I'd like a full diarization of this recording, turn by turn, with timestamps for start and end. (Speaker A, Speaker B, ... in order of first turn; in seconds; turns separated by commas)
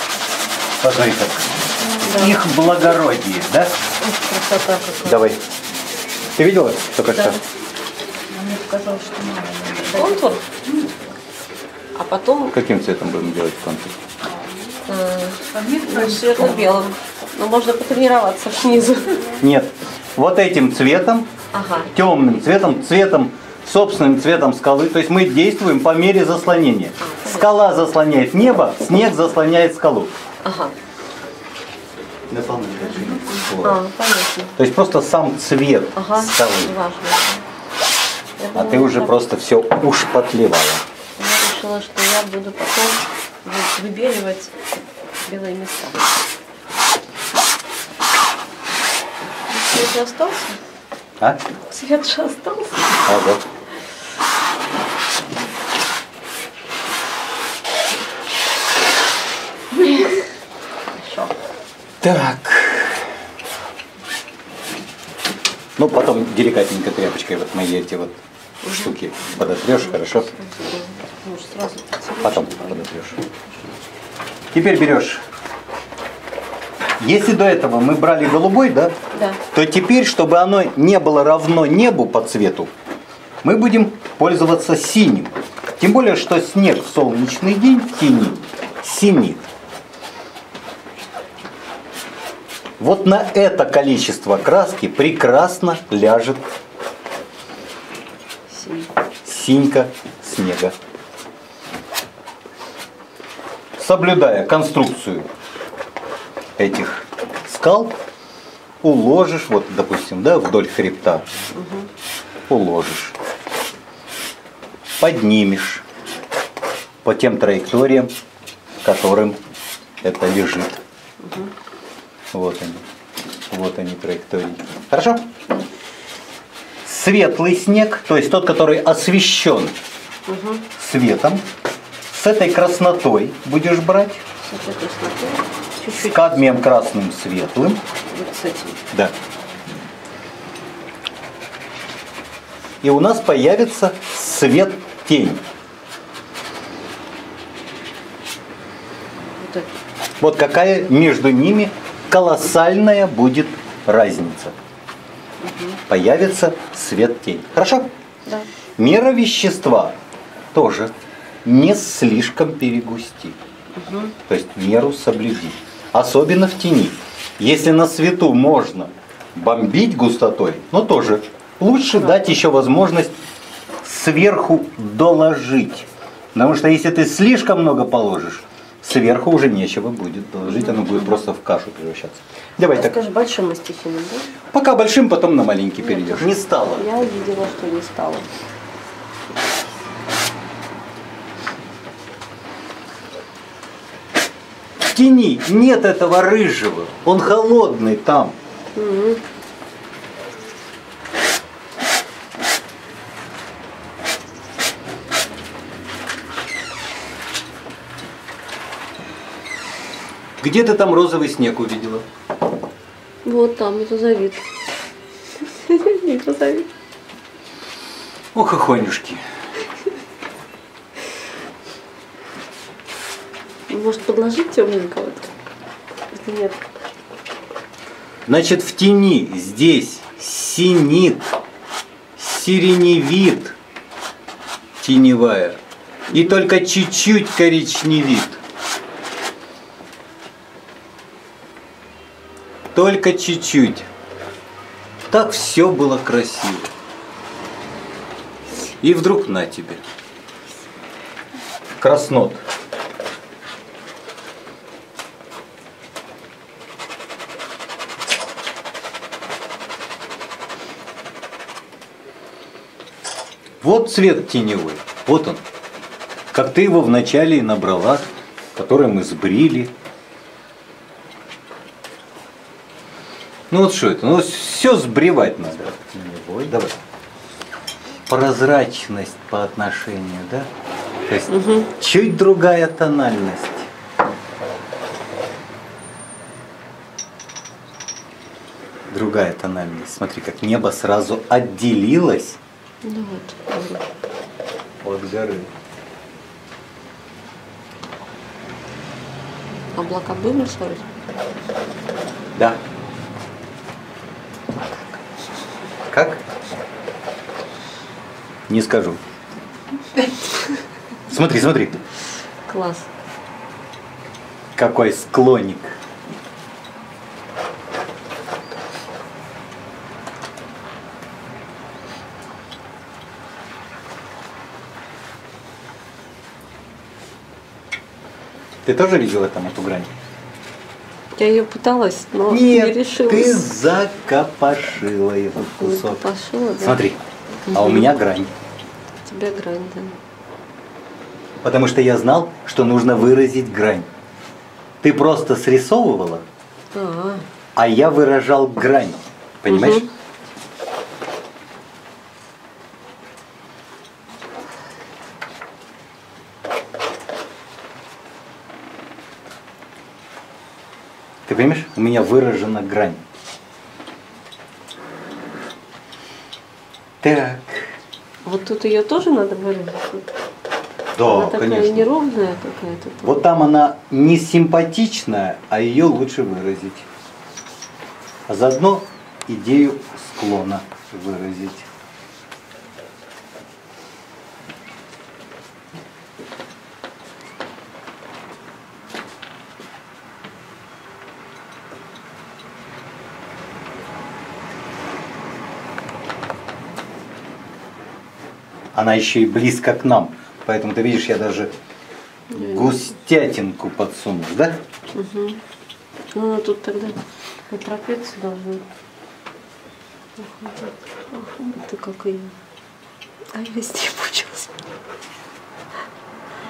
Speaker A: 0.8-1.5, Speaker B: 2.0-2.4, Speaker A: 2.1-3.8, Speaker B: 4.0-5.3, Speaker A: 5.0-5.4, Speaker A: 6.4-7.4, Speaker C: 8.3-10.3, Speaker B: 9.9-10.4, Speaker B: 12.0-12.6, Speaker A: 12.5-13.9, Speaker B: 14.8-19.4, Speaker C: 15.6-16.4, Speaker A: 19.4-21.3, Speaker B: 21.5-21.9, Speaker A: 21.9-30.1, Speaker B: 27.0-27.5, Speaker B: 30.4-30.8, Speaker A: 32.3-33.8, Speaker B: 33.6-34.5, Speaker A: 34.6-36.7, Speaker B: 36.0-37.5, Speaker B: 38.4-39.2, Speaker A: 38.5-40.8, Speaker B: 41.2-44.5, Speaker B: 45.2-46.0, Speaker B: 49.5-50.6, Speaker B: 51.7-53.0, Speaker A: 53.0-53.4, Speaker B: 59.8-60.2, Speaker B: 60.9-61.3, Speaker A: 62.0-63.0, Speaker A: 65.8-70.3, Speaker B: 68.6-73.3, Speaker A: 72.2-73.2, Speaker A: 74.5-75.2, Speaker A: 77.0-78.9, Speaker B: 79.1-79.4, Speaker A: 79.5-82.7, Speaker A: 83.4-89.5, Speaker A: 92.8-96.4, Speaker B: 98.5-98.9, Speaker A: 99.2-100.8, Speaker A: 103.8-105.3, Speaker A: 106.6-108.0, Speaker A: 108.8-111.3, Speaker B: 111.5-111.9, Speaker A: 112.5-113.2, Speaker A: 115.0-115.8, Speaker A: 117.0-118.1, Speaker A: 118.8-119.4, Speaker A: 120.0-120.8, Speaker B: 121.2-121.5, Speaker A: 122.3-122.8, Speaker A: 123.5-125.2, Speaker A: 126.8-129.8, Speaker B: 130.3-130.7, Speaker A: 130.8-131.4, Speaker A: 132.1-134.2, Speaker B: 134.4-136.6, Speaker A: 135.9-137.8, Speaker B: 138.1-138.8, Speaker A: 142.8-145.4, Speaker B: 149.4-149.7, Speaker A: 150.2-154.6, Speaker B: 155.4-155.8, Speaker A: 155.9-157.9, Speaker A: 158.8-160.0, Speaker A: 160.5-160.9, Speaker A: 161.4-163.4, Speaker B: 163.8-164.2, Speaker A: 164.3-173.1, Speaker B: 171.9-172.2, Speaker A: 173.8-183.0, Speaker B: 180.4-181.2, Speaker B: 182.6-184.3, Speaker A: 184.5-187.1, Speaker B: 185.8-188.3, Speaker A: 194.9-198.3, Speaker B: 198.7-199.2, Speaker A: 210.4-212.1, Speaker B: 213.2-214.4, Speaker B: 215.5-216.7, Speaker A: 218.3-219.2, Speaker B: 223.7-225.3, Speaker B: 226.1-226.6, Speaker A: 228.3-231.3, Speaker A: 232.2-233.6, Speaker A: 234.8-235.6, Speaker B: 236.1-236.4, Speaker A: 236.1-238.4, Speaker A: 242.7-243.9, Speaker A: 245.1-246.7, Speaker A: 248.8-249.8, Speaker A: 251.8-252.4, Speaker A: 263.6-265.4, Speaker A: 266.3-269.7, Speaker A: 273.5-276.8, Speaker A: 278.1-280.5, Speaker A: 281.1-283.7, Speaker B: 281.3-281.7, Speaker A: 288.9-292.4, Speaker B: 292.8-293.8, Speaker A: 294.8-295.5, Speaker B: 299.7-300.8, Speaker A: 305.9-306.2, Speaker A: 308.5-309.0, Speaker A: 311.1-311.8, Speaker B: 312.5-312.9, Speaker A: 314.6-315.7, Speaker A: 328.6-329.9, Speaker B: 331.2-333.5, Speaker A: 332.3-336.1, Speaker B: 335.4-336.8, Speaker A: 336.6-337.0, Speaker B: 337.5-337.9, Speaker A: 337.5-338.3, Speaker B: 339.1-340.0, Speaker A: 341.4-343.9, Speaker A: 344.8-346.2, Speaker B: 346.7-347.2, Speaker A: 347.6-349.9, Speaker B: 349.5-349.9, Speaker A: 361.3-363.0, Speaker A: 367.0-367.8, Speaker B: 368.2-370.1, Speaker A: 371.0-371.9, Speaker B: 371.0-373.2, Speaker A: 373.0-376.9, Speaker A: 378.3-381.7, Speaker A: 398.7-401.5, Speaker B: 402.3-402.8, Speaker A: 402.3-404.6, Speaker B: 404.9-405.4, Speaker B: 406.1-408.6, Speaker B: 410.2-412.4, Speaker B: 413.3-414.6